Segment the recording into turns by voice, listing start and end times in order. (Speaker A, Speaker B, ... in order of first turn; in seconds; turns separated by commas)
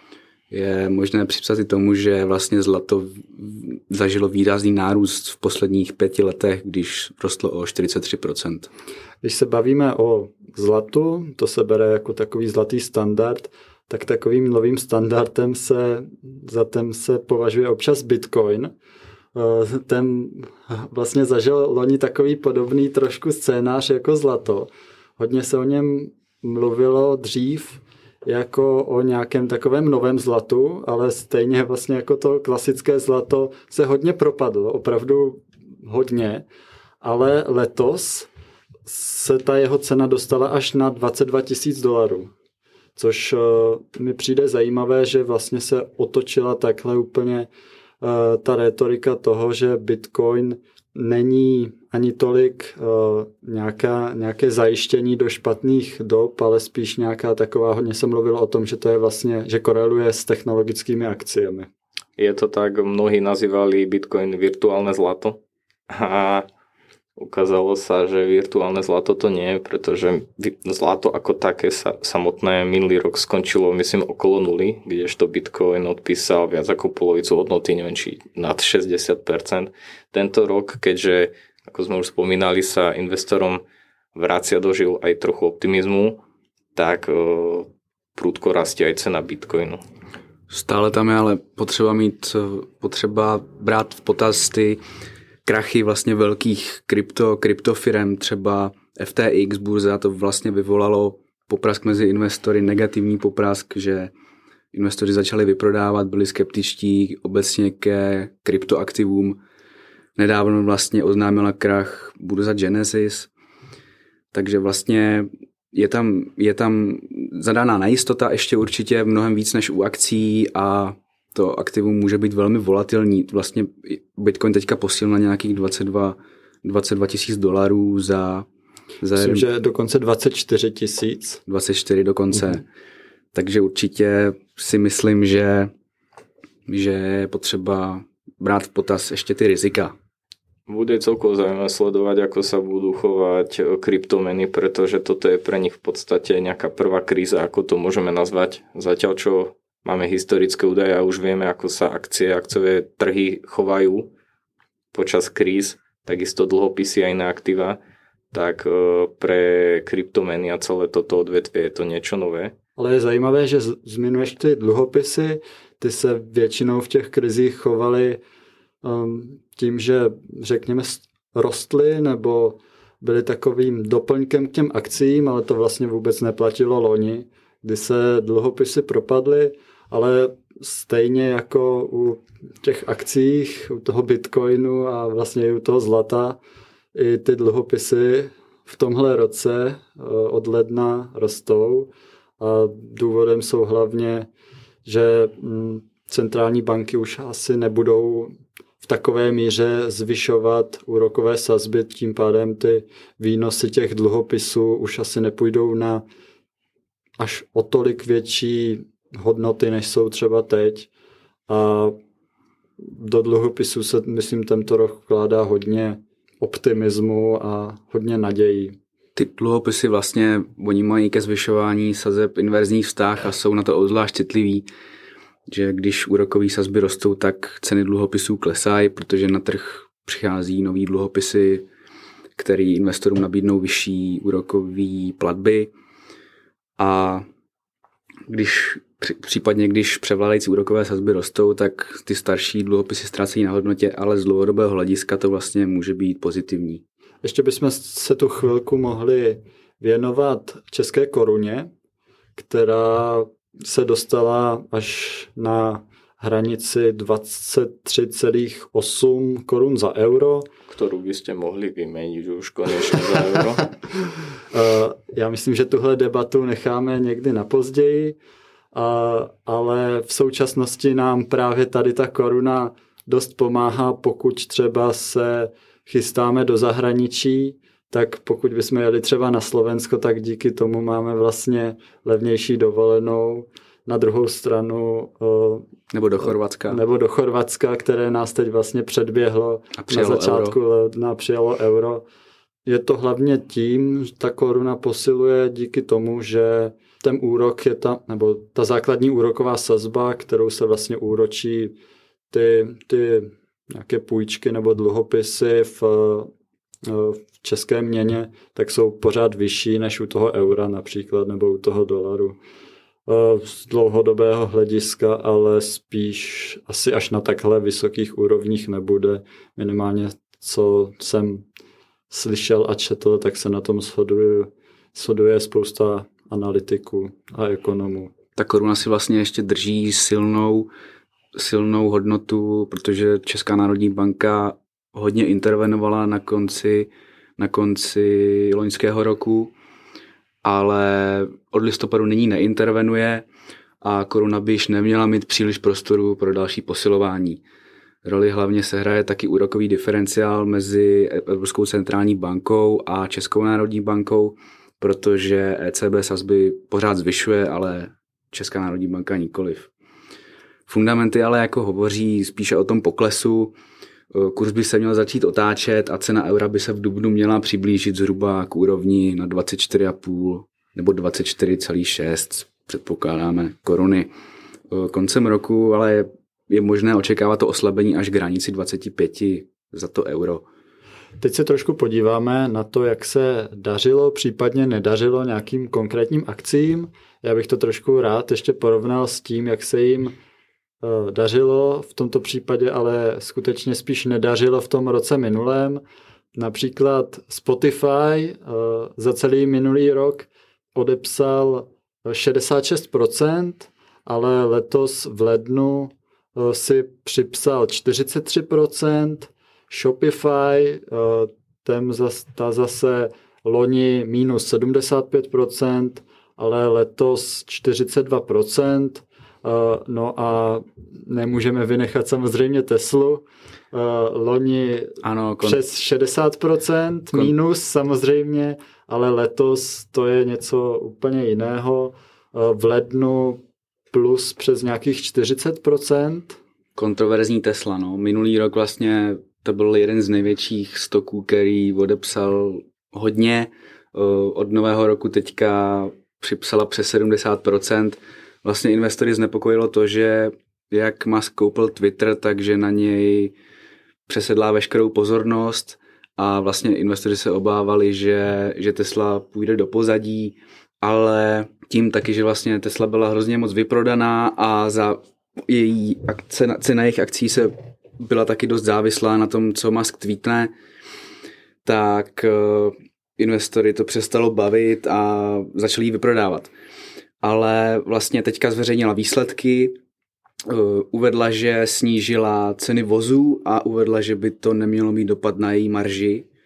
Speaker A: 0.5-8.7, Speaker B: 9.2-18.7, Speaker B: 19.3-36.5, Speaker B: 37.0-38.3, Speaker B: 38.9-42.3, Speaker B: 43.0-47.5, Speaker B: 48.0-61.7, Speaker C: 62.2-66.5, Speaker C: 67.2-83.6, Speaker C: 84.1-86.2, Speaker C: 86.7-89.8, Speaker A: 90.5-94.8, Speaker A: 95.4-104.1, Speaker A: 104.7-109.4, Speaker A: 110.2-113.3, Speaker A: 114.3-128.5, Speaker A: 129.0-129.4, Speaker B: 129.1-131.4, Speaker A: 131.5-132.6, Speaker A: 133.3-135.7, Speaker A: 136.7-139.9, Speaker C: 140.7-154.1, Speaker C: 154.9-157.8, Speaker C: 158.3-162.5, Speaker B: 162.8-168.2, Speaker B: 168.8-186.4, Speaker B: 186.9-194.3, Speaker B: 194.8-206.0, Speaker B: 207.2-210.9, Speaker B: 211.5-211.9, Speaker B: 212.8-218.8, Speaker A: 219.2-224.7, Speaker A: 225.5-231.7, Speaker A: 232.3-235.7, Speaker A: 236.8-237.2, Speaker A: 238.3-246.8, Speaker B: 247.2-251.7, Speaker B: 252.3-260.5, Speaker C: 260.7-263.7, Speaker B: 264.5-268.2, Speaker B: 268.7-285.7, Speaker A: 285.9-286.8, Speaker B: 286.2-292.1, Speaker A: 289.8-290.6, Speaker B: 292.6-301.8, Speaker B: 302.3-306.3, Speaker B: 306.8-312.4, Speaker B: 313.1-321.4, Speaker B: 322.1-328.1, Speaker A: 328.4-330.7, Speaker A: 331.3-339.5, Speaker A: 340.4-343.3, Speaker A: 343.8-347.4, Speaker A: 348.0-359.7, Speaker A: 360.7-363.6, Speaker A: 364.1-374.1, Speaker A: 374.7-380.4, Speaker B: 381.2-390.1, Speaker B: 390.8-395.8, Speaker B: 396.3-436.4, Speaker A: 425.0-425.6, Speaker A: 436.8-453.3, Speaker A: 454.1-470.5, Speaker A: 471.6-476.5, Speaker A: 477.2-479.8, Speaker A: 480.4-486.2